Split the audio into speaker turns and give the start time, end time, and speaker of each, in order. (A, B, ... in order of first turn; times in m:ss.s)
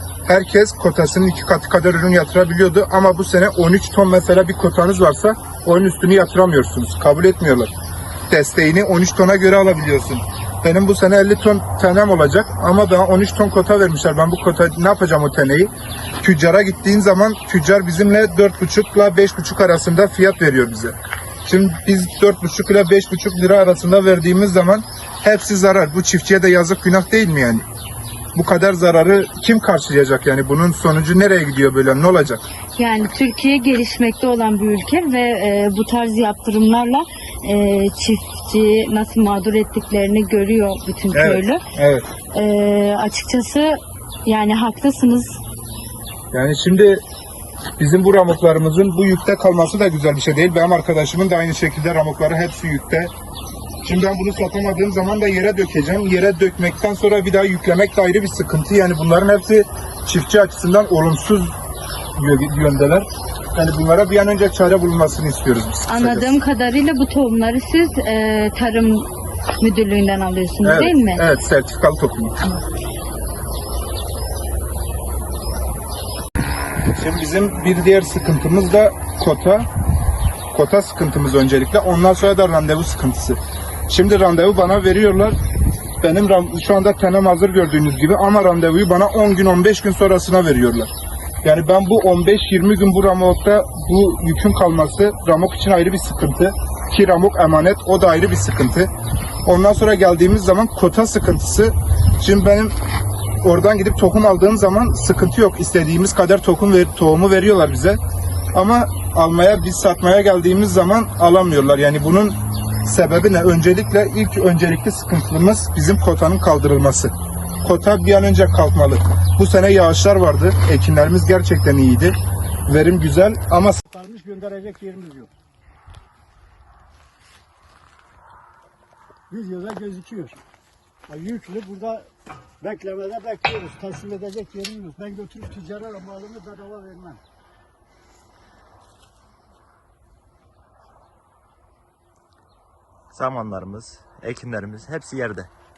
0:00.2-0:07.7 A
0:08.3-0:20.9 A
0:21.4-0:27.6 A
0:28.3-0:32.4 A
0:32.8-0:41.6 B
0:41.1-0:42.1 A
0:42.3-0:45.4 B
0:46.3-0:47.0 A
0:47.8-0:53.1 A
0:53.8-1:01.5 A
1:02.2-1:06.4 A
1:05.9-1:09.1 B
1:09.6-1:11.2 B
1:10.6-1:12.4 A
1:16.9-1:19.7 A
1:20.5-1:25.4 A
1:26.0-1:30.9 A
1:31.4-1:38.9 A
1:39.4-1:42.7 A
1:43.4-1:48.0 A
1:48.5-1:57.1 A
1:57.6-2:02.2 A
2:02.7-2:03.8 A
2:03.8-2:05.3 C
2:09.3-2:10.4 C
2:11.1-2:12.0 C
2:12.6-2:17.2 C
2:23.1-2:25.5 D